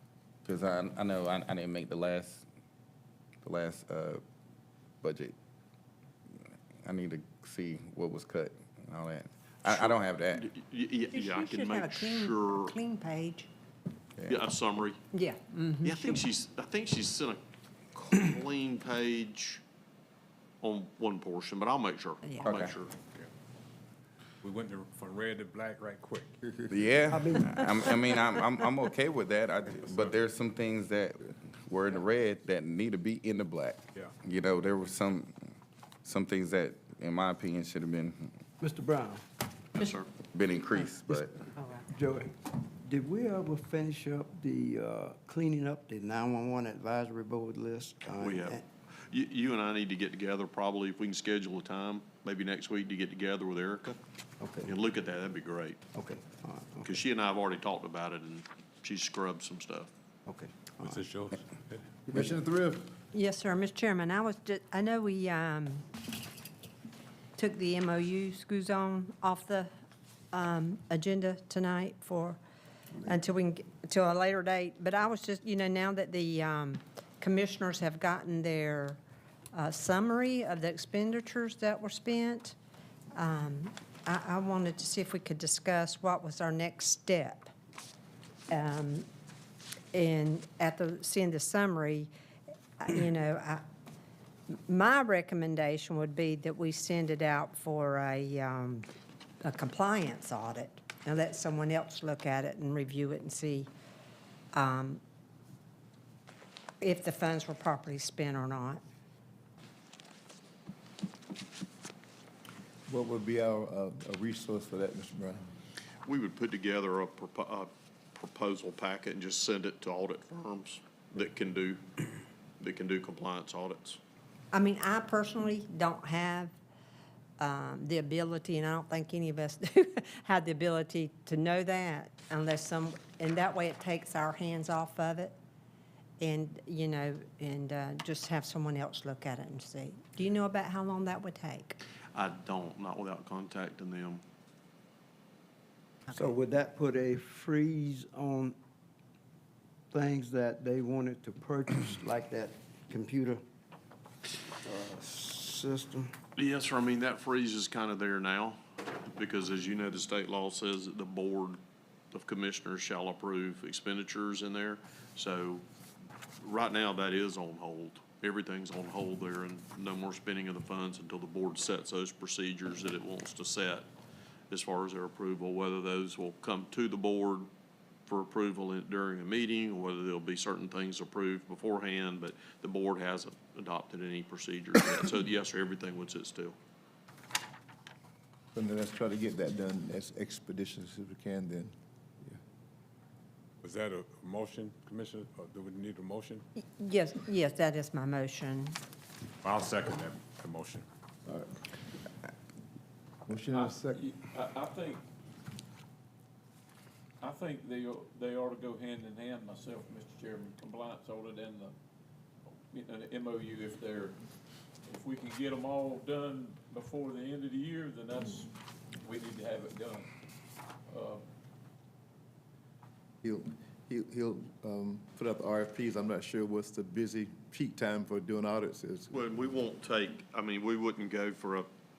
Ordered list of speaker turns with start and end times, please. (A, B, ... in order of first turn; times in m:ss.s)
0:00.4-0:02.5 A
0:03.4-0:04.2 A
0:05.0-0:05.3 A
0:06.8-0:10.4 A
0:09.6-0:12.7 B
0:11.1-0:13.5 C
0:14.3-0:15.0 B
0:15.1-0:16.2 C
0:15.8-0:17.4 B
0:17.9-0:19.6 B
0:20.6-0:22.9 B
0:22.4-0:22.7 A
0:24.4-0:26.6 D
0:26.7-0:35.3 A
0:27.1-0:27.6 E
0:36.0-0:38.3 A
0:38.6-0:39.2 E
0:39.7-0:40.1 B
0:40.3-0:41.4 A
0:41.6-0:41.8 C
0:41.9-0:48.6 E
0:48.2-0:54.0 B
0:54.4-0:54.7 E
0:54.6-0:55.8 B
0:55.9-0:57.0 E
0:56.8-0:59.9 B
1:00.2-1:01.0 E
1:00.8-1:01.9 D
1:02.1-1:02.9 F
1:03.1-1:05.8 C
1:07.4-1:09.7 C
1:10.3-1:12.4 C
1:13.0-1:19.0 C
1:19.5-1:22.6 C
1:23.1-1:27.5 C
1:28.5-1:29.0 C
1:29.9-1:32.1 C
1:32.8-1:33.6 C
1:34.5-1:38.8 C
1:39.4-1:43.7 C
1:44.5-1:45.0 C
1:46.8-1:48.8 C
1:52.9-1:55.4 F
1:56.0-2:02.1 B
2:02.6-2:04.0 B
2:04.5-2:06.5 C
2:07.4-2:15.4 C
2:16.2-2:21.8 C
2:22.1-2:24.2 B
2:26.1-2:28.6 E
2:29.9-2:33.4 E
2:34.6-2:36.1 E
2:36.4-2:45.6 B
2:46.4-2:53.9 B
2:54.5-2:57.5 B
2:58.1-3:06.6 B
3:08.5-3:12.4 F
3:13.6-3:16.4 D
3:16.6-3:18.8 C
3:19.4-3:20.8 D
3:21.2-3:21.6 F
3:23.2-3:24.0 F
3:23.5-3:25.0 G
3:27.2-3:31.7 G
3:32.7-3:34.2 G
3:34.8-3:40.1 G
3:40.9-3:41.2 G
3:43.2-3:49.1 F
3:49.1-3:51.7 B